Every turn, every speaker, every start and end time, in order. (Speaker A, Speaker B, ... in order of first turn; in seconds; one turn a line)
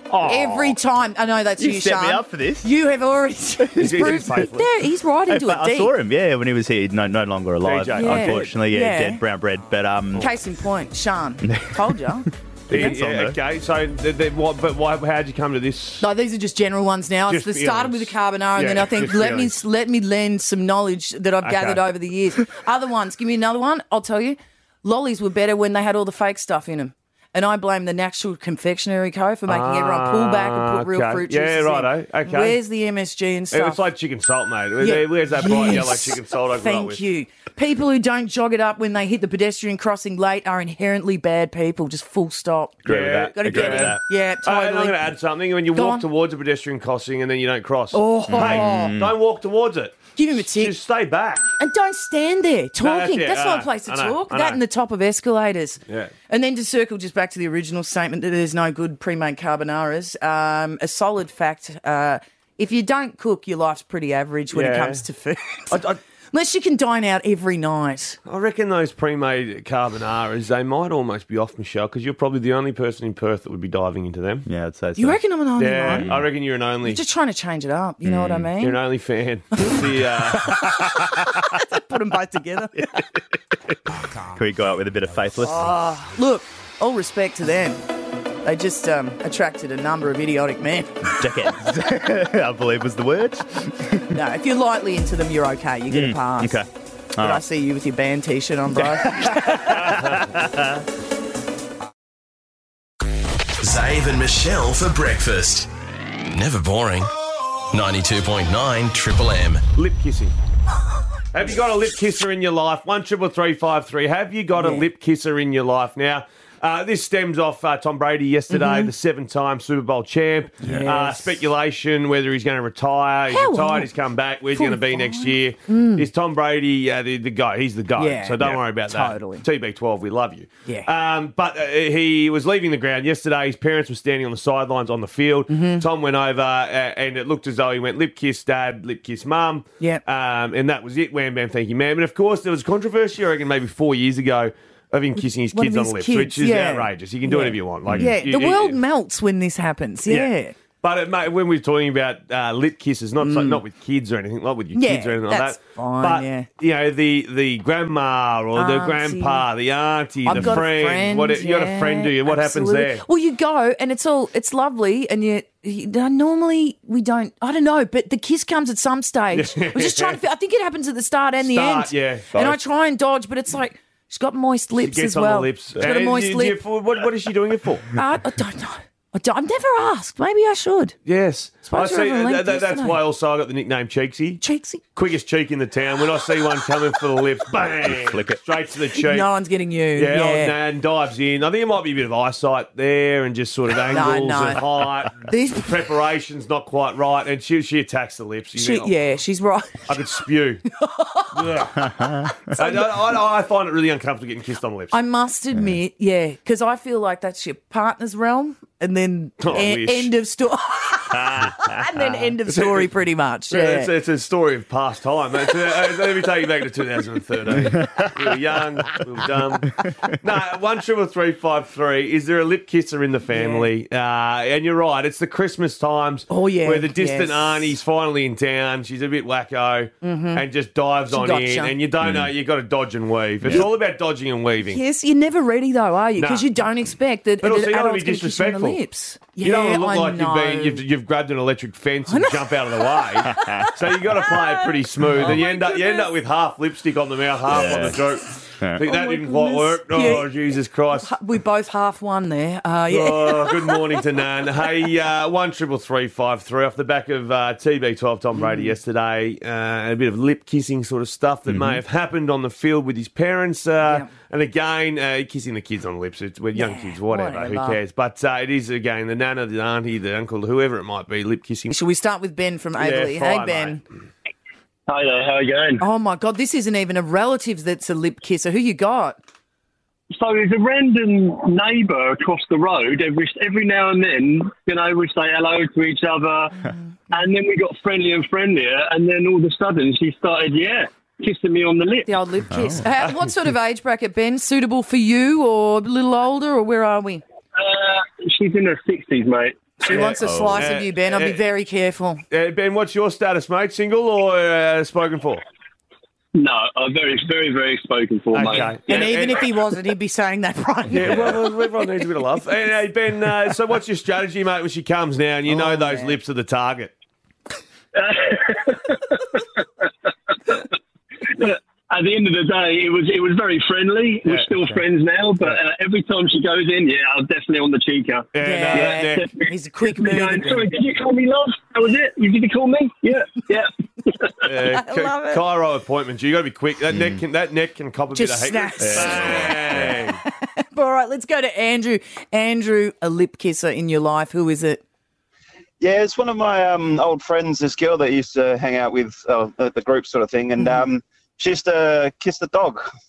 Speaker A: 0.1-0.7
Speaker B: 0.2-0.4
Speaker C: 0.2-5.9
Speaker A: 1.6-2.7
Speaker A: 3.8-4.2
Speaker B: 3.8-4.7
Speaker A: 5.3-10.3
Speaker B: 7.6-8.5
Speaker C: 7.9-9.2
Speaker C: 10.1-13.0
Speaker A: 11.4-12.0
Speaker A: 12.7-13.4
Speaker B: 12.7-16.1
Speaker C: 16.0-33.8
Speaker B: 17.3-19.6
Speaker B: 29.5-32.6
Speaker B: 33.5-37.0
Speaker C: 34.8-45.1
Speaker A: 42.8-44.0
Speaker B: 42.9-51.4
Speaker C: 45.7-46.0
Speaker C: 47.9-48.9
Speaker A: 48.3-49.1
Speaker C: 50.1-50.7
Speaker C: 51.6-68.2
Speaker B: 52.8-54.6
Speaker B: 64.5-65.0
Speaker B: 65.7-66.0
Speaker B: 68.2-74.5
Speaker A: 74.5-75.2
Speaker C: 75.0-76.2
Speaker B: 75.6-77.0
Speaker A: 75.9-76.3
Speaker C: 76.8-78.8
Speaker A: 78.0-78.5
Speaker B: 78.6-80.6
Speaker C: 80.4-83.0
Speaker A: 84.3-85.7
Speaker C: 85.4-87.8
Speaker C: 88.4-91.1
Speaker A: 91.0-94.1
Speaker C: 94.1-96.6
Speaker A: 95.9-97.4
Speaker C: 97.2-100.0
Speaker A: 98.8-100.8
Speaker D: 103.6-105.7
Speaker D: 106.3-107.1
Speaker D: 107.7-109.6
Speaker B: 109.7-110.3
Speaker B: 111.3-148.8
Speaker C: 114.5-114.8
Speaker C: 118.5-118.9
Speaker C: 120.6-121.3
Speaker C: 123.3-123.9
Speaker C: 124.5-126.1
Speaker C: 128.0-129.4
Speaker C: 135.5-135.8
Speaker C: 145.5-150.5
Speaker A: 147.9-148.1
Speaker B: 150.8-163.0
Speaker C: 153.2-153.6
Speaker C: 154.7-156.5
Speaker C: 158.5-159.4
Speaker C: 160.2-176.6
Speaker A: 160.3-160.6
Speaker B: 169.3-170.2
Speaker B: 171.4-172.6
Speaker B: 174.8-177.9
Speaker C: 177.9-180.9
Speaker B: 181.1-184.4
Speaker C: 181.6-183.0
Speaker C: 184.4-184.8
Speaker B: 184.9-189.3
Speaker A: 187.8-188.4
Speaker C: 189.0-190.6
Speaker B: 189.9-198.9
Speaker C: 193.9-194.6
Speaker C: 195.2-195.7
Speaker C: 198.6-200.1
Speaker B: 199.9-200.6
Speaker C: 200.8-201.4
Speaker B: 201.3-201.7
Speaker A: 201.8-202.5
Speaker C: 202.5-202.8
Speaker B: 202.6-204.9
Speaker C: 204.9-213.9
Speaker B: 209.4-210.1
Speaker A: 211.1-212.3
Speaker B: 212.5-212.9
Speaker B: 213.5-219.7
Speaker A: 217.6-218.2
Speaker B: 220.2-234.8
Speaker C: 223.3-223.7
Speaker C: 226.3-227.8
Speaker C: 230.0-230.4
Speaker C: 231.1-231.7
Speaker A: 232.0-232.3
Speaker A: 233.4-233.7
Speaker C: 234.7-240.8
Speaker B: 236.2-236.5
Speaker B: 237.4-238.8
Speaker B: 239.4-251.1
Speaker C: 242.1-246.1
Speaker A: 243.3-243.7
Speaker A: 245.2-245.4
Speaker A: 247.5-248.0
Speaker C: 248.8-250.3
Speaker C: 251.0-253.9
Speaker B: 252.9-271.7
Speaker C: 258.4-258.7
Speaker A: 261.5-261.8
Speaker C: 263.8-264.1
Speaker C: 266.5-267.8
Speaker C: 271.7-273.8
Speaker B: 272.8-273.8
Speaker E: 274.9-275.8
Speaker C: 275.8-279.2
Speaker E: 280.1-286.5
Speaker E: 287.1-292.1
Speaker C: 292.1-297.2
Speaker A: 292.5-292.9
Speaker E: 297.6-299.6
Speaker C: 299.8-302.2
Speaker B: 299.9-301.4
Speaker A: 300.2-300.6
Speaker B: 302.3-305.4
Speaker E: 306.3-308.8
Speaker B: 308.3-309.5
Speaker C: 308.9-311.5
Speaker B: 310.9-316.9
Speaker C: 315.5-316.2
Speaker E: 317.9-319.4
Speaker E: 321.3-334.3
Speaker A: 324.5-324.8
Speaker B: 328.3-329.3
Speaker C: 328.4-330.7
Speaker B: 334.4-340.2
Speaker C: 334.6-335.4
Speaker A: 336.9-337.2
Speaker C: 338.1-339.6
Speaker A: 338.8-340.0
Speaker C: 340.4-344.8
Speaker F: 345.8-352.9
Speaker C: 350.6-350.8